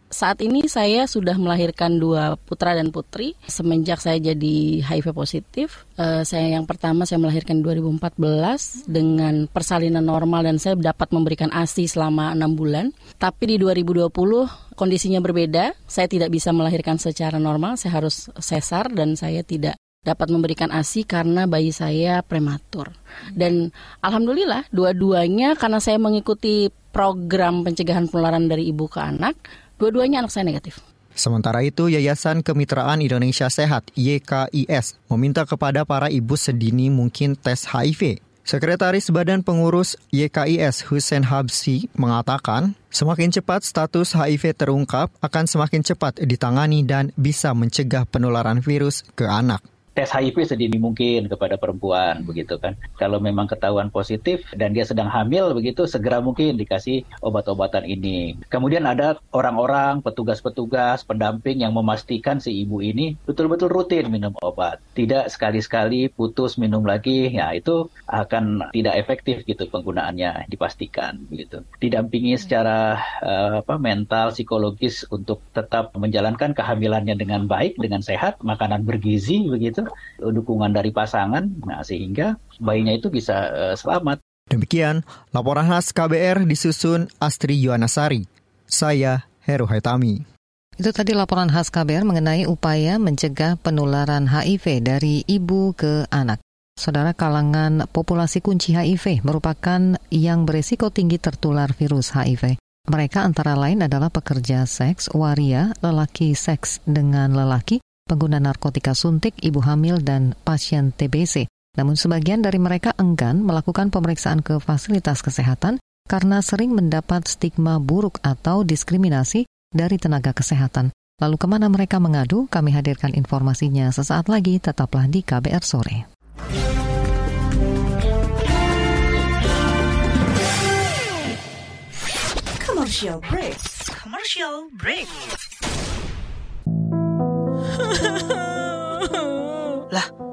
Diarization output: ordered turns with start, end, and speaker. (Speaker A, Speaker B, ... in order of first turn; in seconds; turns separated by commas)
Speaker A: 0.1-30.8, Speaker B: 31.2-49.6, Speaker C: 50.0-84.2, Speaker B: 84.5-90.2, Speaker D: 90.8-126.0, Speaker E: 132.6-135.2